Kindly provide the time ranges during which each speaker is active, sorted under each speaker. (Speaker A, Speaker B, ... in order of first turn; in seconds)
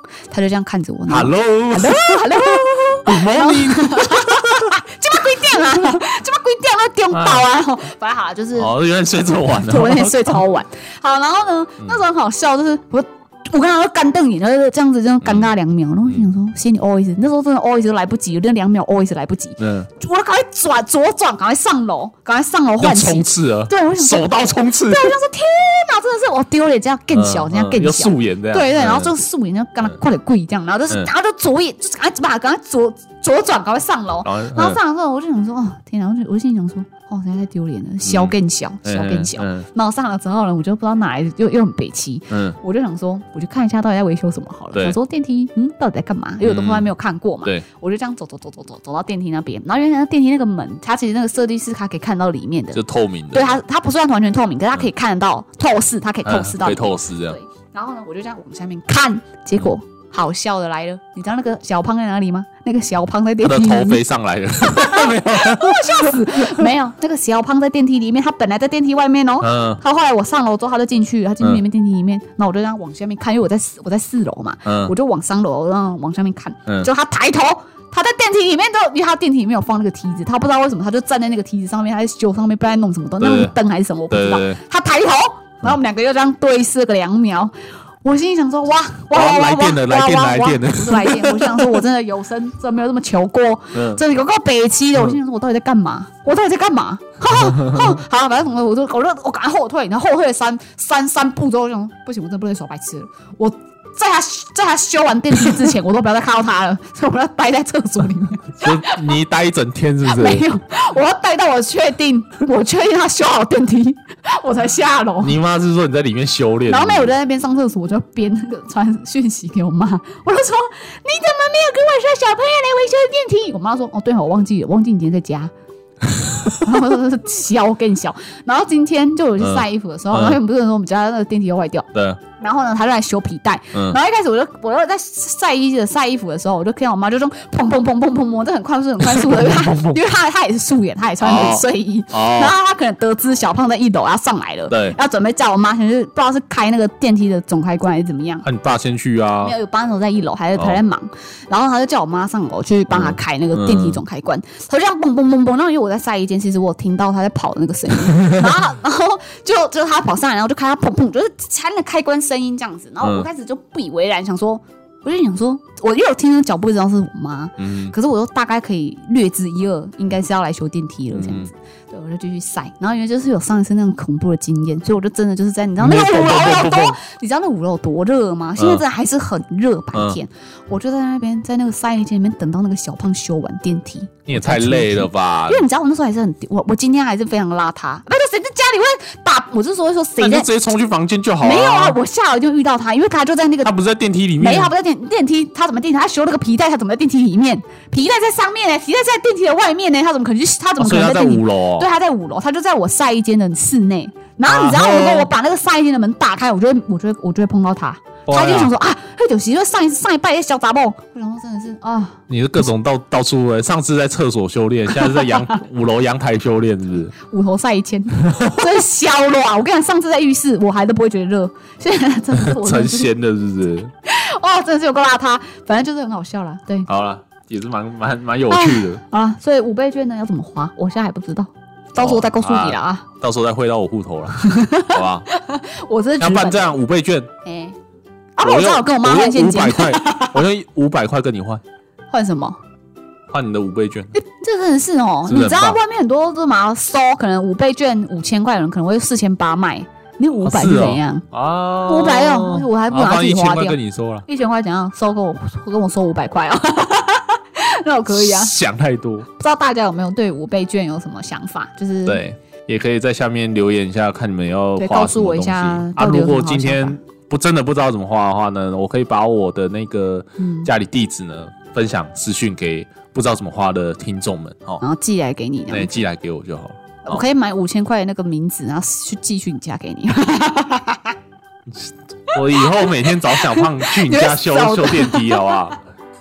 Speaker A: 0.3-8.7, 9.5-52.8, 53.3-64.0, 64.6-87.5, 88.0-109.0, 110.0-115.4, 116.7-125.5, 126.5-148.4, 149.4-190.5, 191.4-193.7, 194.4-212.2, 214.9-215.6, 217.2-223.1, 224.1-226.9, 228.5-233.1, 234.4-236.8, 237.4-237.8, 238.4-240.4, 242.1-242.6, 244.1-251.3, 251.8-258.5, 259.4-262.2, 264.8-267.0, 270.4-270.7, 274.8-276.0, 277.1-281.1, 282.5-285.6
Speaker B: 1.1-4.7, 7.1-7.5, 8.6-10.4, 15.2-15.5, 19.6-19.9, 22.8-25.2, 27.1-29.1, 34.2-34.8, 38.0-39.7, 42.3-42.6, 46.4-46.9, 52.7-53.6, 56.2-57.4, 63.4-66.7, 69.4-69.8, 74.7-74.9, 83.2-83.5, 84.1-84.6, 89.1-91.8, 93.7-94.0, 97.3-98.0, 108.6-110.5, 115.2-117.2, 126.2-126.6, 129.4-130.4, 131.9-132.2, 133.7-134.0, 139.0-140.0, 141.2-142.6, 144.7-145.0, 148.4-149.6, 152.9-154.0, 163.0-163.3, 167.6-167.9, 171.1-171.5, 175.8-177.0, 178.6-178.8, 179.9-180.2, 184.3-185.6, 190.2-192.0, 193.6-194.7, 200.8-201.9, 204.4-205.3, 208.3-208.7, 212.3-217.1, 218.2-218.7, 222.3-223.9, 226.9-229.0, 232.0-235.3, 236.2-237.3, 238.4-241.6, 243.3-244.1, 245.2-245.8, 250.4-254.2, 258.1-259.3, 262.1-274.8, 275.7-277.2, 281.7-285.8